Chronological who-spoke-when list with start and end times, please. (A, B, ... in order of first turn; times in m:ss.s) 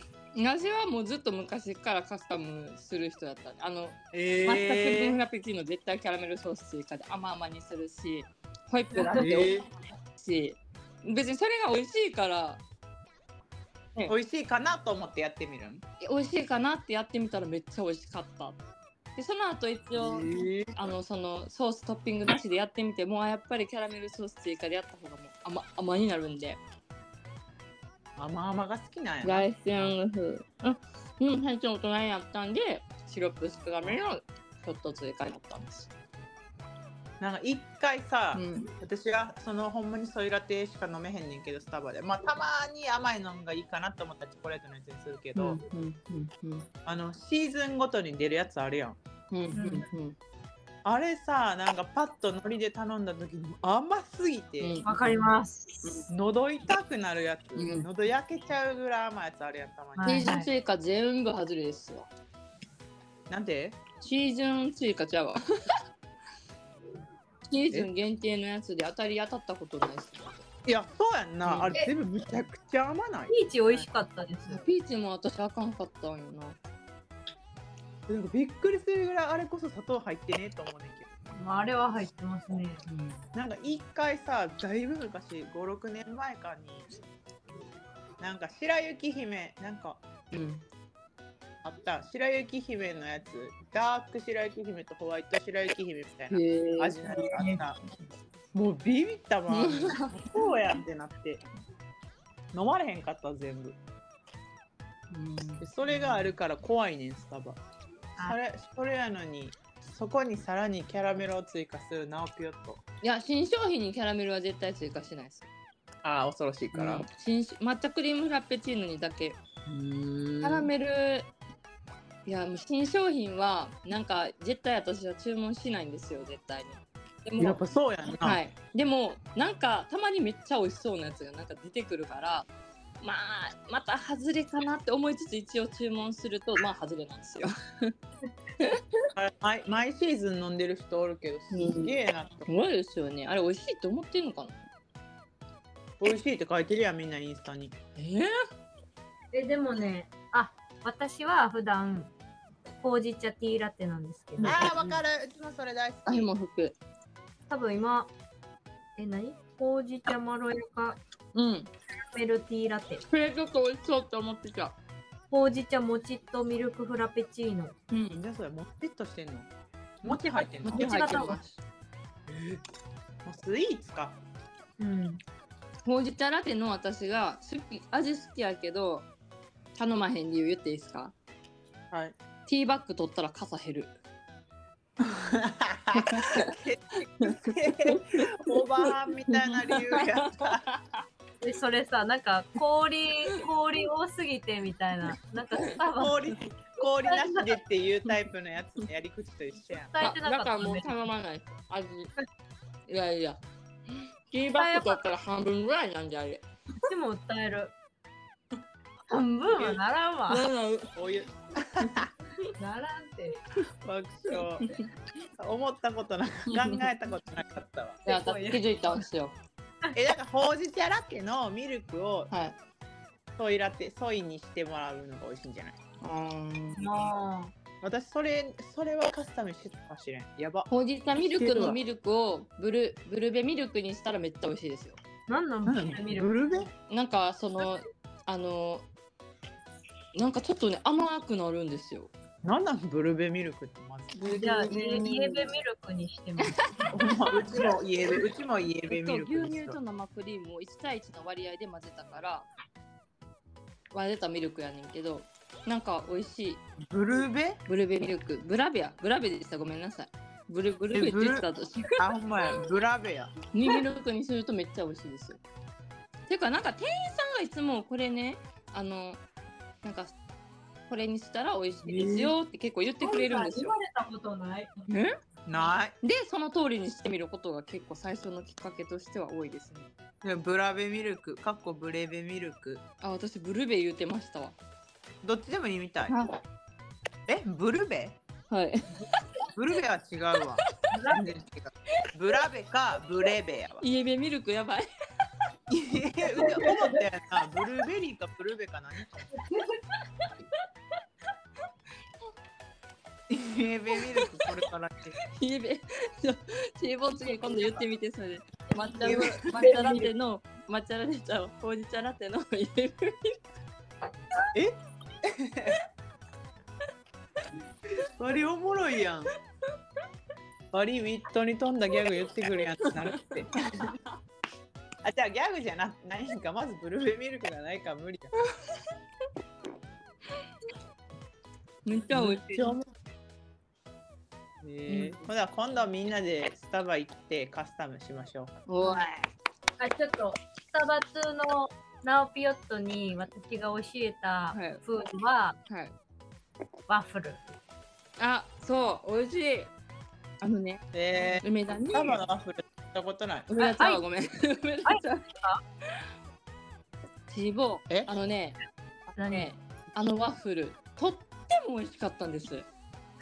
0:00.4-0:12.6 A
0:04.1-0:05.2 B
0:09.0-0:09.2 C
0:09.1-0:09.7 B
0:14.1-0:15.8 B
0:16.0-0:18.6 A
0:19.2-0:26.6 A
0:20.0-0:20.8 B
0:28.2-0:30.0 B
0:29.2-0:35.9 A
0:37.2-0:45.6 B
0:38.3-0:38.7 A
0:45.4-0:46.7 A
0:46.9-0:49.0 B
0:49.3-0:50.2 A
0:49.6-0:49.9 C
0:50.8-0:54.8 B
0:54.6-0:55.2 A
0:54.8-0:55.9 C
0:56.1-1:00.4 B
0:57.6-0:57.9 A
1:00.0-1:00.5 C
1:00.0-1:02.1 A
1:03.3-1:03.8 B
1:04.0-1:05.5 A
1:07.5-1:10.4 A
1:10.6-1:13.8 B
1:11.4-1:11.8 A
1:13.3-1:14.7 C
1:14.5-1:16.6 A
1:18.1-1:21.1 B
1:21.4-1:22.8 C
1:22.9-1:23.2 A
1:23.3-1:26.9 B
1:28.2-1:30.0 B
1:30.3-1:30.6 A
1:31.6-1:37.8 B
1:36.3-1:37.3 A
1:38.5-1:41.4 B
1:39.5-1:40.2 A
1:42.5-1:43.8 B
1:45.1-1:45.7 A
1:45.6-1:47.6 B
1:48.2-1:52.8 B
1:53.0-1:55.5 A
1:56.0-1:57.1 B
1:56.7-1:59.4 A
1:59.7-2:00.7 B
2:00.4-2:01.3 A
2:02.3-2:07.6 A
2:07.4-2:08.4 B
2:08.2-2:12.5 A
2:13.0-2:18.0 A
2:18.6-2:19.1 A
2:19.2-2:22.5 B
2:21.5-2:21.9 A
2:22.5-2:24.6 A
2:26.0-2:27.8 B
2:28.0-2:28.4 A
2:29.3-2:32.1 C
2:32.8-2:35.0 C
2:34.4-2:34.7 A
2:34.4-2:36.3 B
2:36.1-2:36.8 A
2:37.5-2:38.1 C
2:39.0-2:41.0 C
2:41.4-2:41.7 A
2:42.1-2:43.0 C
2:43.1-2:44.8 A
2:45.3-2:47.7 C
2:47.9-2:48.2 A
2:48.1-2:49.5 B
2:50.0-2:51.2 B
2:50.1-2:51.4 C
2:50.6-2:51.6 A
2:52.3-2:52.6 B
2:53.2-2:54.2 B
2:54.8-2:55.2 C
2:55.8-2:59.1 A
2:59.8-3:01.2 A
3:02.5-3:04.0 A
3:05.0-3:10.6 B
3:05.9-3:06.6 A
3:07.2-3:11.0 A
3:11.4-3:17.6 C
3:15.5-3:15.8 A
3:16.0-3:19.9 B
3:19.9-3:21.0 C
3:20.0-3:22.1 A
3:22.9-3:23.4 A
3:24.3-3:26.4 A
3:24.6-3:25.0 C
3:26.8-3:27.8 C
3:29.1-3:30.5 C
3:30.3-3:30.9 A
3:31.0-3:32.1 B
3:32.6-3:33.4 C
3:33.8-3:34.7 B
3:35.4-3:38.0 B
3:36.5-3:36.8 A
3:38.1-3:39.0 C
3:38.1-3:39.4 A
3:40.0-3:42.3 B
3:42.3-3:42.6 A
3:43.4-3:45.8 B
3:46.0-3:47.1 A
3:46.8-3:47.5 C
3:47.8-3:50.7 B
3:50.7-3:55.0 A
3:51.2-3:51.8 B
3:55.3-3:56.4 C
3:55.7-3:56.7 B
3:56.9-3:58.9 A
4:00.2-4:02.1 A
4:02.4-4:05.5 B
4:04.2-4:05.1 A
4:04.3-4:06.9 C
4:06.9-4:09.8 B
4:08.9-4:12.5 A
4:13.9-4:16.6 A
4:16.8-4:17.6 B
4:17.7-4:22.1 A
4:20.9-4:23.3 B
4:23.5-4:25.4 A
4:26.3-4:29.2 A
4:29.8-4:30.1 A
4:30.9-4:33.8 A
4:31.9-4:32.3 C
4:33.0-4:34.9 C
4:34.9-4:35.2 A
4:35.5-4:36.0 B
4:36.0-4:39.9 A
4:40.2-4:42.8 B
4:43.0-4:44.6 A
4:45.2-4:46.2 B
4:46.1-4:46.4 A
4:47.3-4:48.2 B
4:48.5-4:49.4 A
4:49.5-4:53.8 B
4:50.9-4:51.3 C
4:53.8-4:54.9 A
4:55.7-4:59.3 B
4:56.4-4:57.0 C
4:59.4-4:59.7 C
5:03.3-5:05.2 B
5:04.0-5:04.5 A
5:05.3-5:13.4 A
5:09.0-5:09.7 B
5:09.0-5:10.1 C
5:14.5-5:15.8 B
5:18.0-5:19.3 B
5:20.7-5:23.9 B
5:22.8-5:24.1 A
5:25.0-5:28.3 B
5:31.8-5:32.7 A
5:32.1-5:32.9 B
5:34.6-5:38.6 B
5:34.9-5:35.2 A
5:38.7-5:39.3 A
5:39.8-5:45.6 C
5:44.5-5:44.8 A
5:46.9-5:47.4 C
5:48.2-5:49.7 A
5:50.4-5:50.8 A
5:50.9-5:53.5 B
5:51.4-5:52.2 A
5:53.5-5:55.2 A
5:53.6-5:54.0 C
5:54.8-5:55.6 C
5:57.3-5:58.6 A
5:59.2-5:59.5 C
5:59.2-6:02.7 A